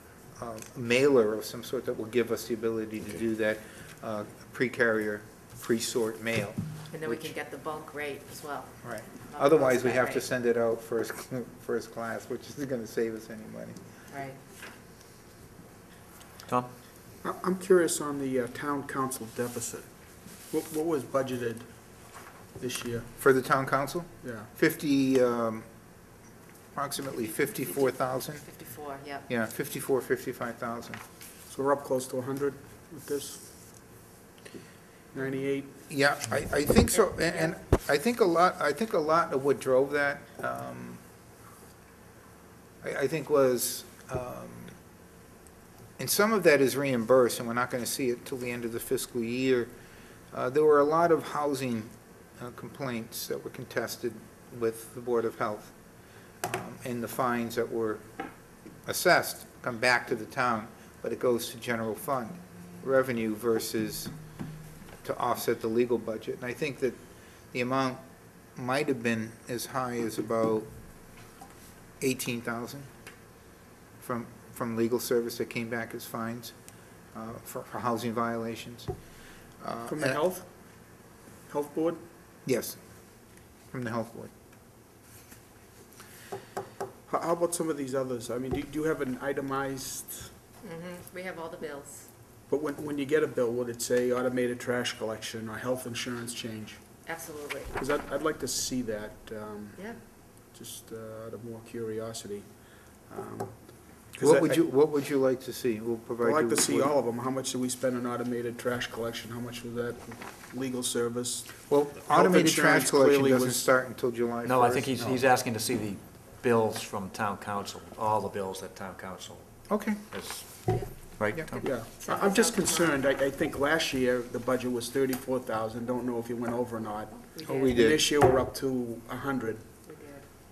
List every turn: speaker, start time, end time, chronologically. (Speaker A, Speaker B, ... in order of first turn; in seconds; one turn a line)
Speaker A: 0.4-7.3
Speaker B: 6.9-10.3
Speaker A: 8.8-13.8
Speaker B: 14.1-14.4
Speaker C: 17.2-19.9
Speaker C: 20.5-23.1
Speaker A: 23.2-25.7
Speaker C: 24.2-24.5
Speaker A: 26.8-28.5
Speaker B: 27.3-29.3
Speaker A: 29.3-31.0
Speaker C: 31.5-33.9
Speaker C: 35.1-35.8
Speaker A: 35.9-41.0
Speaker B: 36.9-37.5
Speaker A: 42.8-44.8
Speaker A: 46.0-49.7
Speaker A: 50.3-55.8
Speaker A: 56.4-58.0
Speaker A: 58.9-64.1
Speaker A: 65.0-67.0
Speaker A: 67.5-68.0
Speaker A: 68.6-70.7
Speaker A: 72.0-72.9
Speaker A: 74.0-76.5
Speaker A: 77.1-78.9
Speaker A: 79.6-80.2
Speaker C: 79.9-82.0
Speaker A: 82.5-82.8
Speaker A: 83.7-84.3
Speaker C: 87.1-90.3
Speaker B: 90.6-92.1
Speaker C: 92.5-96.8
Speaker B: 97.1-97.7
Speaker C: 97.7-104.7
Speaker B: 99.8-100.0
Speaker A: 104.2-106.9
Speaker C: 106.2-113.7
Speaker A: 111.7-115.0
Speaker D: 114.4-121.7
Speaker A: 119.7-120.0
Speaker B: 121.6-123.0
Speaker C: 121.6-129.7
Speaker B: 127.3-128.0
Speaker A: 127.4-128.0
Speaker B: 129.8-130.3